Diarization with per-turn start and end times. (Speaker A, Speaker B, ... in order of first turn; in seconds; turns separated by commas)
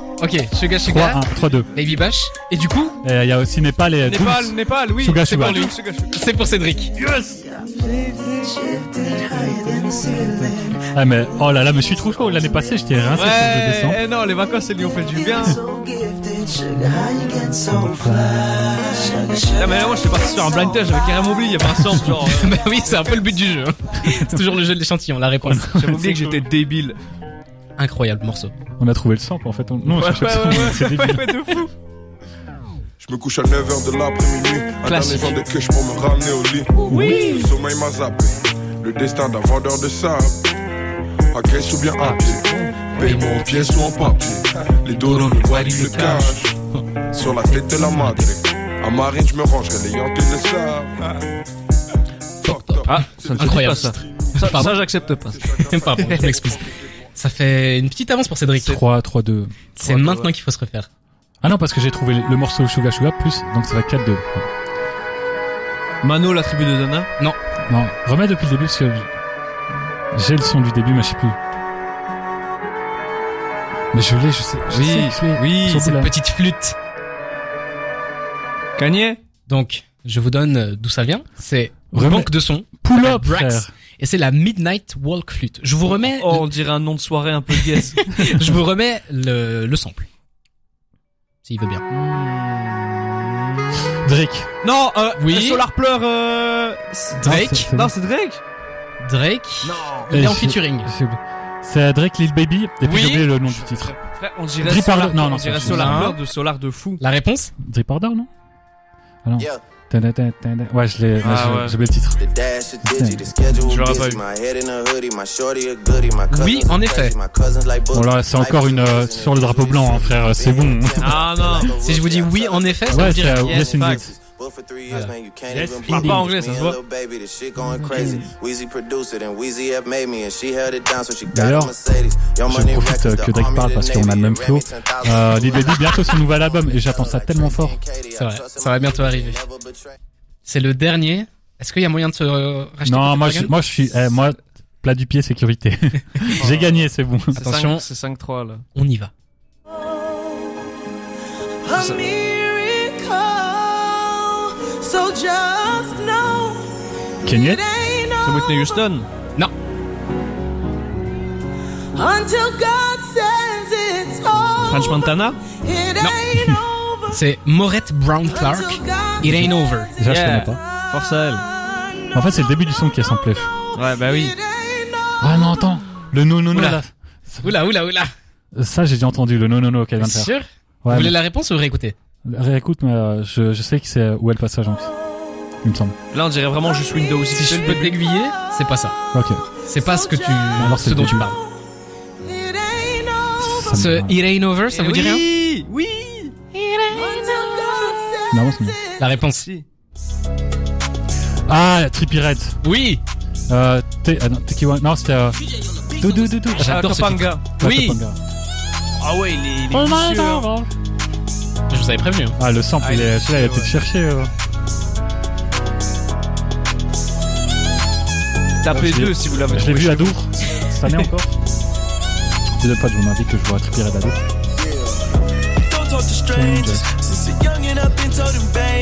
Speaker A: 0.2-3.0, Speaker B: 0.8-1.7, Speaker B: 3.0-5.7, Speaker C: 4.0-6.1, Speaker A: 5.2-6.9, Speaker C: 7.0-7.4, Speaker D: 7.5-10.2, Speaker B: 10.2-14.0, Speaker C: 13.1-15.6, Speaker D: 15.5-19.6, Speaker B: 17.8-18.8, Speaker C: 19.5-23.2, Speaker A: 22.0-25.7, Speaker B: 25.4-26.4, Speaker C: 25.6-27.0, Speaker A: 27.8-28.5, Speaker B: 28.8-31.3, Speaker C: 29.9-31.7, Speaker E: 33.0-40.4, Speaker C: 34.9-35.4, Speaker C: 36.9-37.5, Speaker A: 36.9-37.5, Speaker E: 41.3-46.5, Speaker C: 42.0-42.8, Speaker A: 43.0-44.2, Speaker A: 45.0-46.4, Speaker C: 45.7-46.3, Speaker E: 47.1-51.1, Speaker A: 47.4-48.3, Speaker E: 52.4-57.1, Speaker A: 52.5-54.8, Speaker C: 52.9-56.4, Speaker A: 55.6-58.8, Speaker B: 58.6-59.5, Speaker A: 59.8-60.9, Speaker C: 59.8-60.3, Speaker B: 61.4-64.5, Speaker C: 66.0-67.1, Speaker B: 67.7-69.1, Speaker B: 70.1-71.4, Speaker B: 73.9-76.1, Speaker C: 74.7-75.9, Speaker A: 75.8-76.8, Speaker C: 78.8-79.2, Speaker A: 79.5-86.5, Speaker B: 81.9-83.7, Speaker C: 85.9-88.2, Speaker A: 87.6-90.1, Speaker A: 91.5-91.8, Speaker C: 91.9-94.0, Speaker B: 94.0-94.5, Speaker C: 94.6-98.4, Speaker A: 95.2-95.6, Speaker A: 97.2-97.7, Speaker B: 97.2-97.9, Speaker A: 99.0-100.9, Speaker C: 99.6-100.1, Speaker B: 100.1-104.0, Speaker A: 102.8-103.2, Speaker C: 103.1-107.0, Speaker B: 104.6-106.1, Speaker A: 105.6-106.2, Speaker A: 107.0-107.5, Speaker B: 107.6-108.3, Speaker B: 109.2-112.2, Speaker C: 111.2-111.8, Speaker F: 112.2-139.9, Speaker B: 112.8-113.3, Speaker C: 113.6-114.2, Speaker A: 116.3-117.2, Speaker B: 117.9-121.2, Speaker C: 121.0-121.7, Speaker A: 121.7-123.6, Speaker B: 122.9-124.1, Speaker C: 123.0-124.1, Speaker A: 124.9-125.1, Speaker B: 125.5-126.3, Speaker C: 125.9-126.8, Speaker C: 127.8-128.3, Speaker B: 131.3-131.8, Speaker B: 132.4-137.8, Speaker A: 138.2-139.4, Speaker A: 140.4-143.5, Speaker B: 142.8-147.4, Speaker C: 146.3-148.6, Speaker A: 147.3-147.9, Speaker A: 148.8-149.1, Speaker C: 151.7-152.2, Speaker D: 151.8-156.7, Speaker B: 157.2-157.7, Speaker D: 157.5-158.8, Speaker C: 158.2-159.1, Speaker D: 162.0-165.0, Speaker C: 164.6-165.4, Speaker D: 165.6-167.0, Speaker A: 166.0-166.4, Speaker A: 167.1-169.9, Speaker D: 168.5-169.2, Speaker B: 169.2-170.6, Speaker C: 170.1-171.5, Speaker B: 172.1-173.5, Speaker C: 173.7-174.4, Speaker D: 174.3-175.2, Speaker B: 175.2-177.5, Speaker A: 176.5-176.8, Speaker A: 177.4-178.1, Speaker B: 178.6-181.2, Speaker A: 180.0-182.0, Speaker B: 182.2-184.9, Speaker B: 185.6-186.0, Speaker C: 186.1-188.1, Speaker A: 187.3-189.0, Speaker B: 189.1-189.4, Speaker A: 189.7-191.4, Speaker D: 189.8-190.4, Speaker B: 190.5-191.3, Speaker D: 192.2-193.5, Speaker B: 193.4-194.2, Speaker A: 193.7-195.2, Speaker C: 194.7-196.3, Speaker A: 196.5-197.4, Speaker D: 197.0-198.4, Speaker B: 198.3-198.8, Speaker A: 199.0-199.5, Speaker C: 199.3-199.7, Speaker B: 201.5-202.6, Speaker A: 202.6-203.0, Speaker B: 203.5-205.4, Speaker B: 205.9-208.2, Speaker C: 206.5-207.4, Speaker A: 206.6-208.0, Speaker C: 209.0-210.5, Speaker B: 209.7-210.7, Speaker A: 211.7-212.4, Speaker B: 212.4-214.3, Speaker C: 212.8-213.7, Speaker C: 218.6-221.1, Speaker B: 218.7-221.3, Speaker B: 222.6-224.2, Speaker E: 225.9-226.1, Speaker B: 226.2-227.0, Speaker E: 228.1-228.4